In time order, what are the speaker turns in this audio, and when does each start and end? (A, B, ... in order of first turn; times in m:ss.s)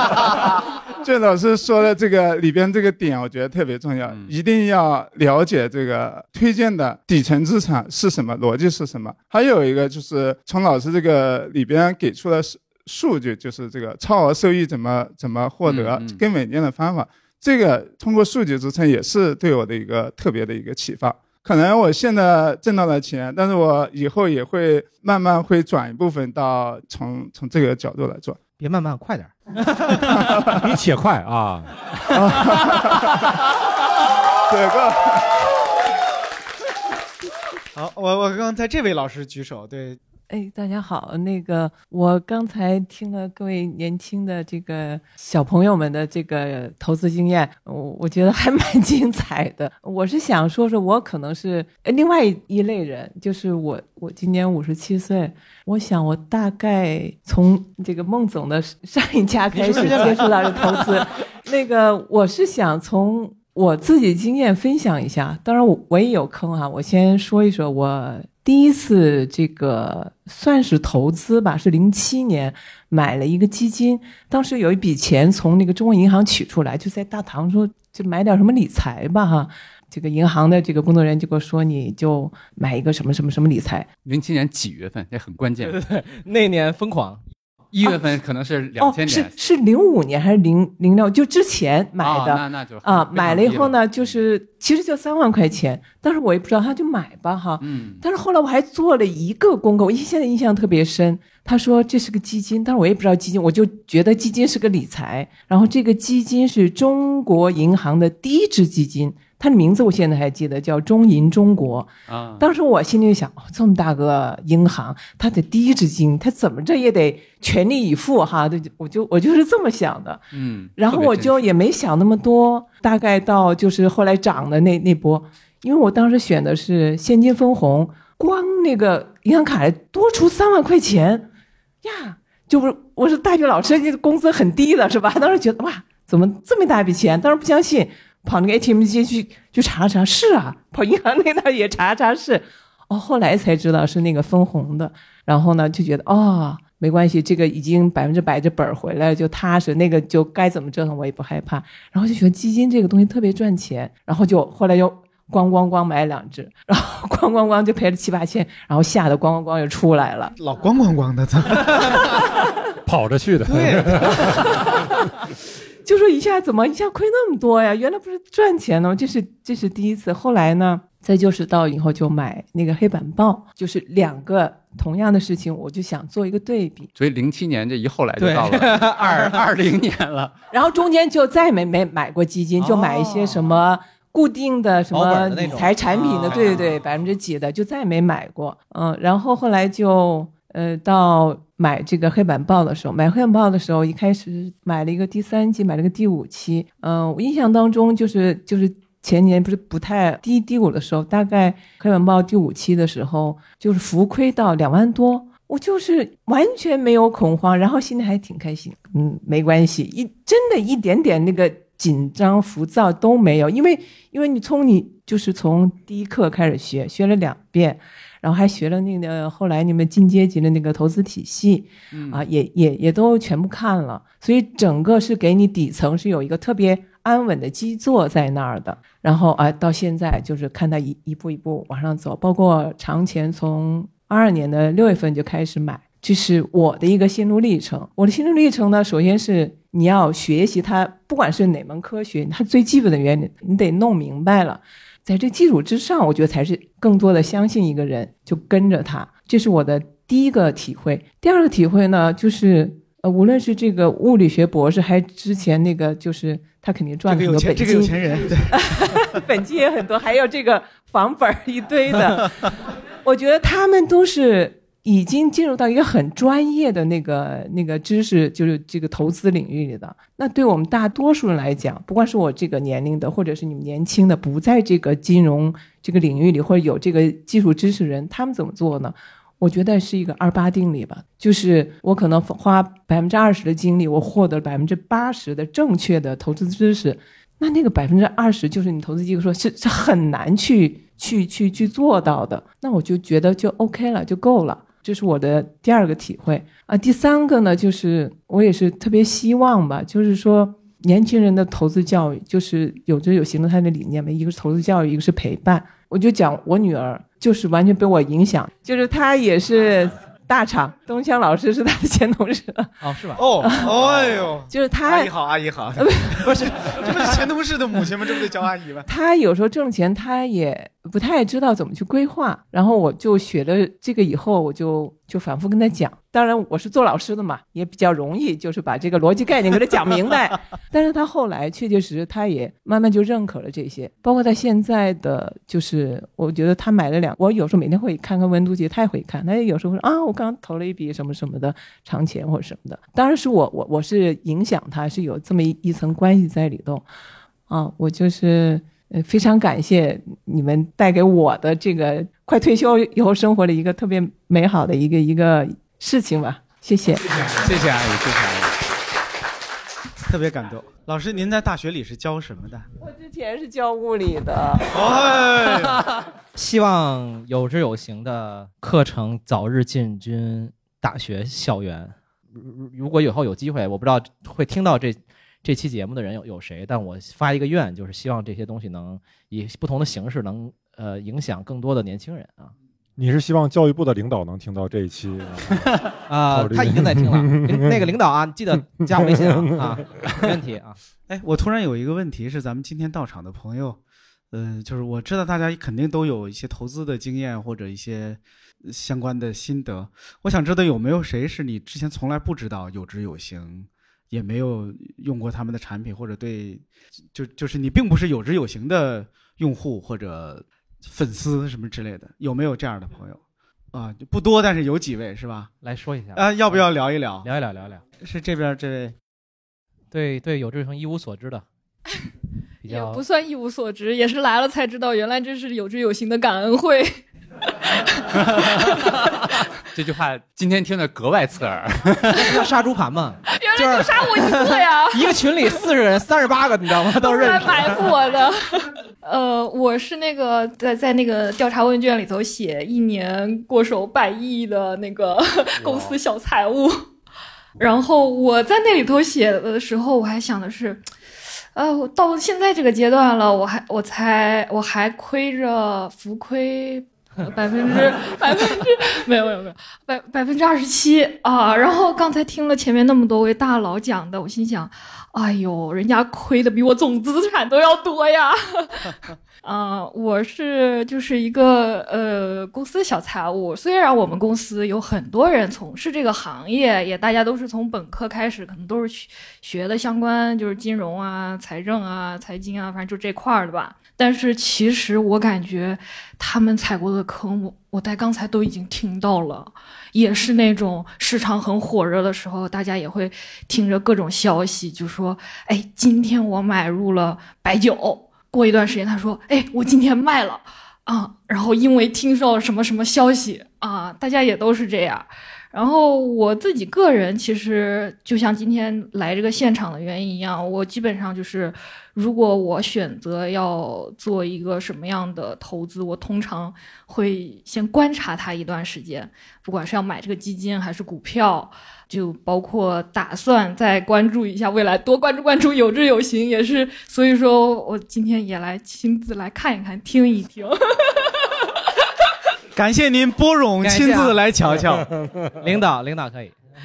0:01.0-0:28.4 A
0:04.1-0:04.3 B
0:15.7-0:16.2 B
0:28.6-0:30.2 C
0:30.6-0:32.2 D
0:32.1-0:33.0 A
0:34.5-0:35.2 A
0:37.8-0:40.0 E
0:40.3-1:23.9 F
0:59.5-1:00.8 C
1:24.0-1:25.8 B
1:25.6-1:27.2 C
1:27.7-1:29.4 B
1:28.8-2:00.2 F
1:32.0-1:34.2 B
1:37.6-1:38.0 B
1:52.1-1:52.5 B
2:00.3-2:01.5 B
2:00.8-2:11.3 F
2:11.8-2:40.4 F
2:40.4-2:42.1 E
2:42.9-2:44.4 D
2:43.5-2:44.4 E
2:45.8-2:56.9 F
2:57.0-3:00.3 B
2:58.2-2:59.4 C
3:00.5-4:18.0 F
3:02.6-3:03.6 C
3:04.9-3:06.7 C
3:06.3-3:06.6 B
3:41.9-3:42.2 B
4:17.1-4:19.1 E
4:18.5-4:22.4 F
4:23.0-5:12.8 F
5:12.8-5:13.7 C
5:13.2-5:18.9 E
5:13.4-5:13.7 F
5:14.5-5:15.1 F
5:15.8-5:16.3 F
5:16.2-5:17.1 C
5:18.9-5:46.8 F
5:47.5-5:57.0 F
5:57.3-5:58.5 B
6:00.1-6:02.7 E
6:02.8-6:05.0 F
6:04.7-6:05.8 E
6:06.4-6:22.5 C
6:23.0-6:25.8 D
6:26.1-6:30.8 C
6:26.3-6:27.9 D
6:28.9-6:29.8 D
6:31.1-6:33.8 E
6:34.3-6:53.2 E
6:53.7-6:55.6 E
6:55.6-6:56.7 C
6:56.1-6:57.3 E
6:57.2-6:57.8 C
6:58.0-6:59.0 E
6:59.9-7:01.5 C
7:02.6-7:03.0 C
7:02.7-7:06.9 G
7:07.7-7:08.9 G
7:09.7-7:12.4 B
7:12.2-7:17.9 C
7:13.3-7:15.1 G
7:17.0-7:26.9 G
7:27.6-7:30.8 G
7:31.6-8:51.2 G
8:52.6-8:54.9 E
8:53.6-8:54.2 C
8:55.4-8:56.4 C